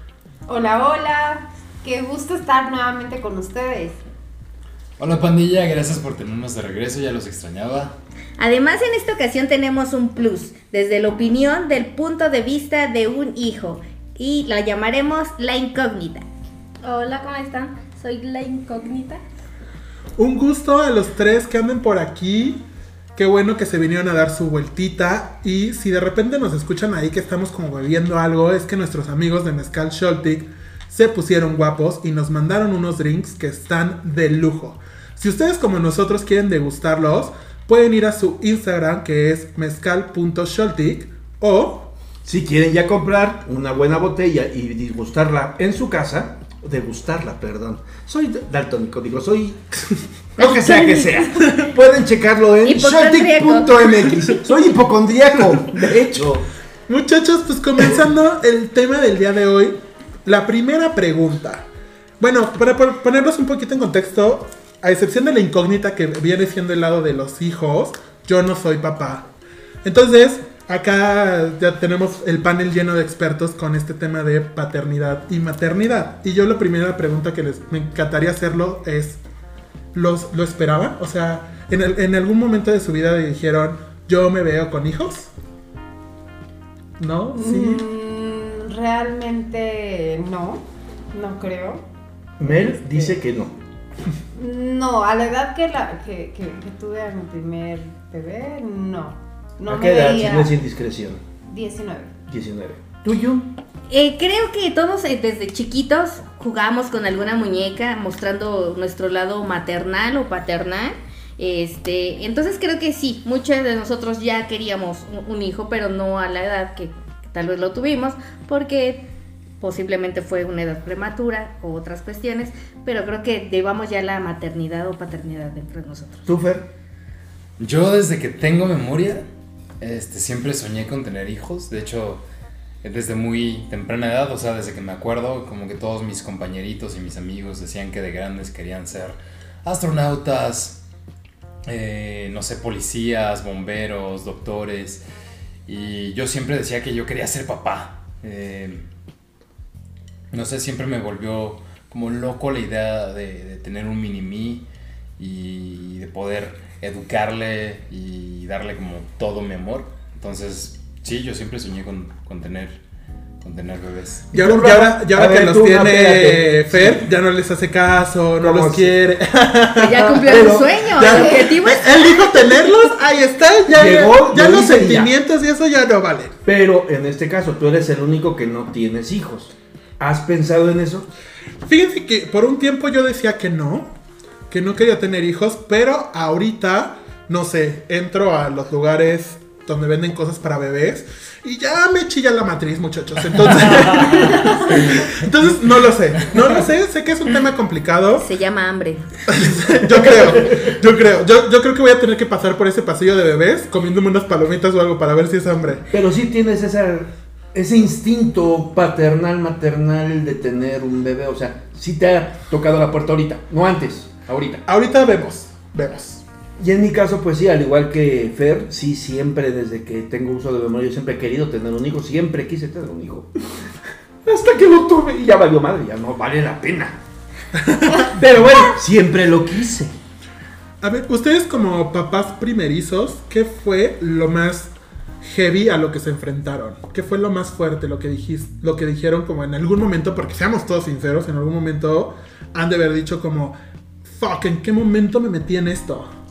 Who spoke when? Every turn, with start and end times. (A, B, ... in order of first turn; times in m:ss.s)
0:00.5-0:04.0 A
0:05.0-0:07.9 B
0:08.4-0:16.2 C
0:16.8-0:19.2 D
0:20.2-0:22.6 E
0:23.2-0:41.9 E
0:42.2-0:49.8 F
0:50.4-0:51.3 C
0:50.4-0:56.4 F
0:52.6-0:54.3 C
0:56.9-1:01.6 E
1:02.2-1:09.3 E
1:09.8-1:19.2 E
1:19.9-1:25.3 E
1:27.0-1:27.8 E
1:27.3-1:31.8 A
1:32.4-1:33.5 F
1:32.4-1:33.2 A
1:34.3-1:40.5 A
1:39.7-1:41.2 F
1:41.4-1:42.2 A
1:42.3-1:43.5 F
1:43.9-1:59.0 C
1:59.6-2:06.3 C
2:06.2-2:06.7 F
2:07.6-2:09.2 B
2:09.8-2:12.2 B
2:12.8-2:20.8 B
2:21.7-2:25.0 B
2:25.7-2:28.8 B
2:30.3-2:34.6 B
2:35.2-2:42.8 B
2:43.4-2:44.3 B
2:44.3-2:47.0 F
2:44.3-2:56.3 E
2:48.4-2:49.0 F
2:49.8-2:52.7 C
2:49.9-2:50.8 F
2:51.0-2:51.5 A
2:53.7-2:55.1 F
2:56.4-3:01.1 F
3:01.6-3:03.9 E
3:04.5-3:18.3 E
3:18.2-3:19.1 C
3:19.3-3:25.8 E
3:19.9-3:20.7 F
3:25.9-3:34.6 F
3:34.6-3:36.2 E
3:36.6-3:43.3 F
3:44.2-3:47.0 F
3:47.6-3:48.1 E
3:48.1-3:49.9 F
3:50.8-4:06.1 E